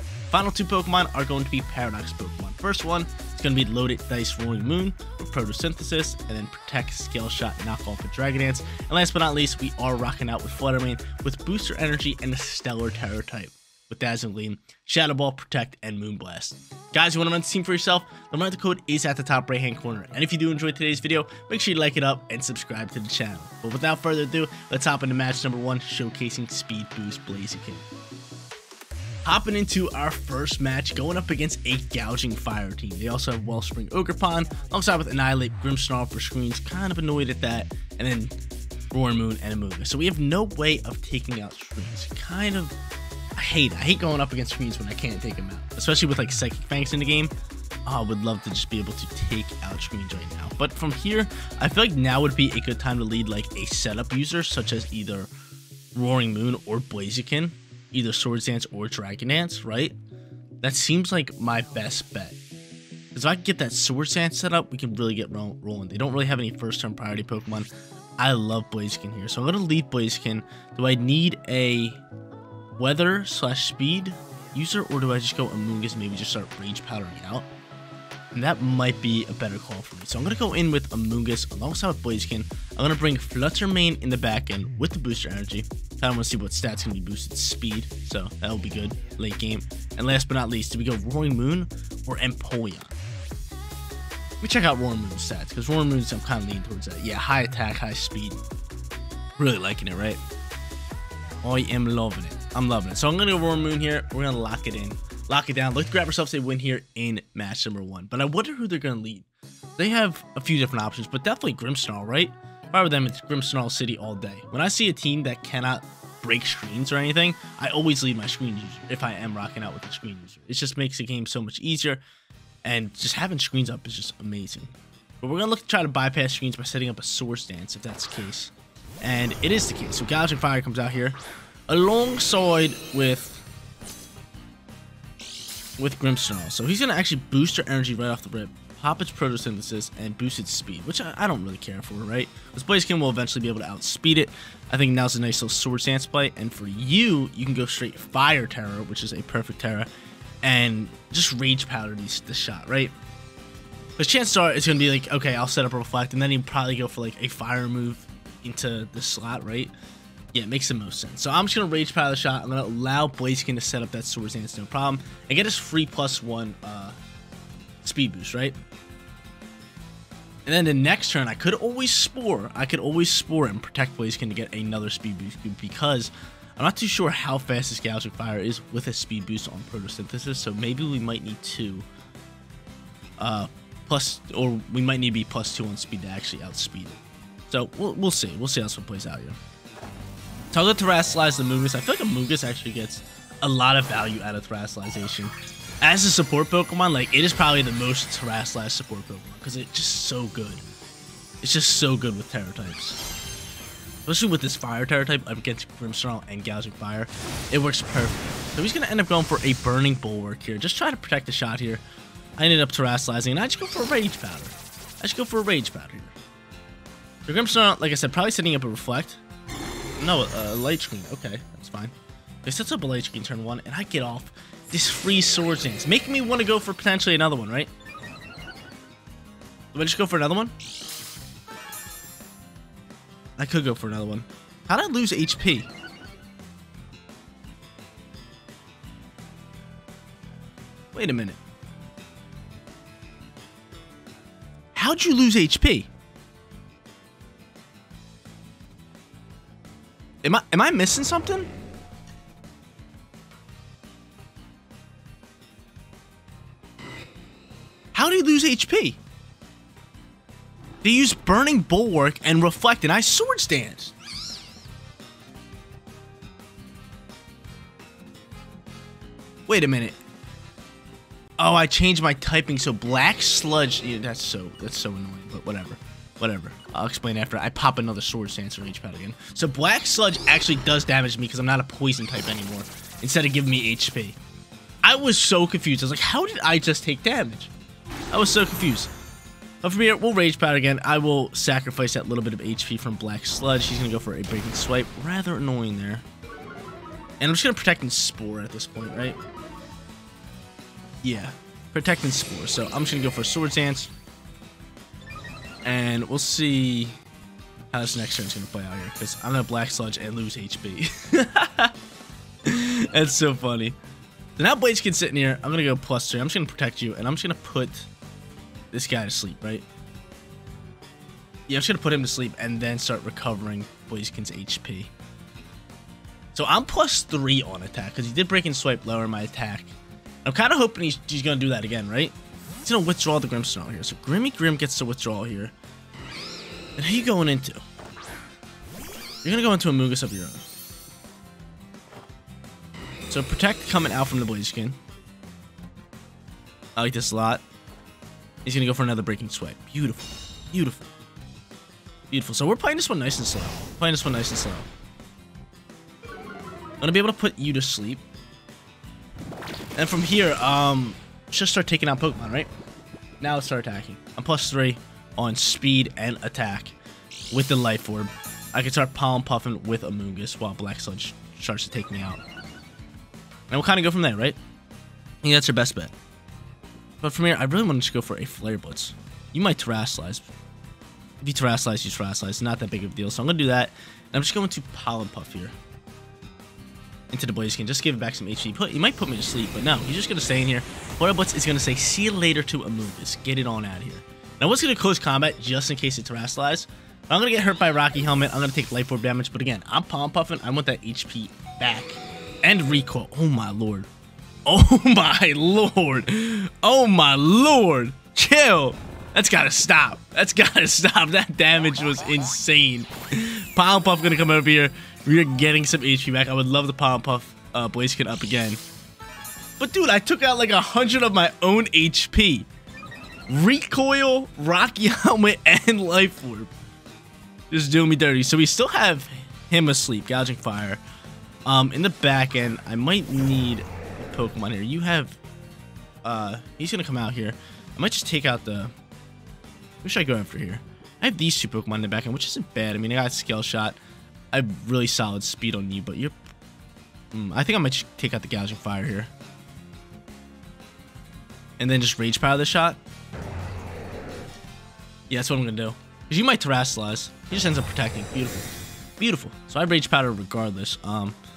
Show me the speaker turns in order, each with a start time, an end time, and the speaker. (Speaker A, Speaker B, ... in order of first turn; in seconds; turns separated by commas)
Speaker A: 0.3-27.9, Speaker A: 29.2-38.4, Speaker A: 38.9-42.8, Speaker A: 43.4-47.3, Speaker A: 47.9-55.3, Speaker A: 56.0-60.0, Speaker A: 60.6-62.4, Speaker A: 63.1-72.0, Speaker A: 72.8-77.5, Speaker A: 78.3-93.0, Speaker A: 94.4-98.4, Speaker A: 99.4-100.2, Speaker A: 101.4-109.3, Speaker A: 109.8-122.0, Speaker A: 122.7-133.4, Speaker A: 135.8-149.9, Speaker A: 150.4-152.9, Speaker A: 154.0-159.7, Speaker A: 160.3-167.0, Speaker A: 167.8-168.6, Speaker A: 170.5-181.9, Speaker A: 183.2-189.4, Speaker A: 190.5-200.6, Speaker A: 201.4-203.0, Speaker A: 204.1-211.8, Speaker A: 212.4-216.2, Speaker A: 217.3-219.2, Speaker A: 220.0-227.7, Speaker A: 229.7-230.5, Speaker A: 233.4-235.7, Speaker A: 240.9-241.4, Speaker A: 244.7-245.9, Speaker A: 250.2-251.5, Speaker A: 257.9-259.0, Speaker A: 260.8-263.9, Speaker A: 269.5-270.0, Speaker A: 271.4-284.2, Speaker A: 284.8-287.5, Speaker A: 288.1-288.9, Speaker A: 289.6-296.1, Speaker A: 297.2-299.2, Speaker A: 301.0-303.9, Speaker A: 305.6-307.0, Speaker A: 307.7-311.7, Speaker A: 312.4-313.8, Speaker A: 314.4-317.9, Speaker A: 318.7-319.6, Speaker A: 321.5-324.9, Speaker A: 326.3-329.7, Speaker A: 330.2-335.5, Speaker A: 336.8-337.6, Speaker A: 339.2-340.5, Speaker A: 343.1-344.8, Speaker A: 346.8-347.4, Speaker A: 348.4-350.9, Speaker A: 352.1-354.7, Speaker A: 356.8-358.0, Speaker A: 359.8-362.5, Speaker A: 363.2-366.8, Speaker A: 367.3-372.2, Speaker A: 373.5-374.4, Speaker A: 375.2-375.9, Speaker A: 377.0-380.3, Speaker A: 381.2-385.6, Speaker A: 387.1-403.9, Speaker A: 404.5-418.6, Speaker A: 419.6-422.5, Speaker A: 423.3-426.5, Speaker A: 427.5-430.8, Speaker A: 431.5-435.2, Speaker A: 436.0-438.7, Speaker A: 439.8-443.8, Speaker A: 444.3-446.2, Speaker A: 447.1-449.1, Speaker A: 451.6-452.8, Speaker A: 455.1-461.2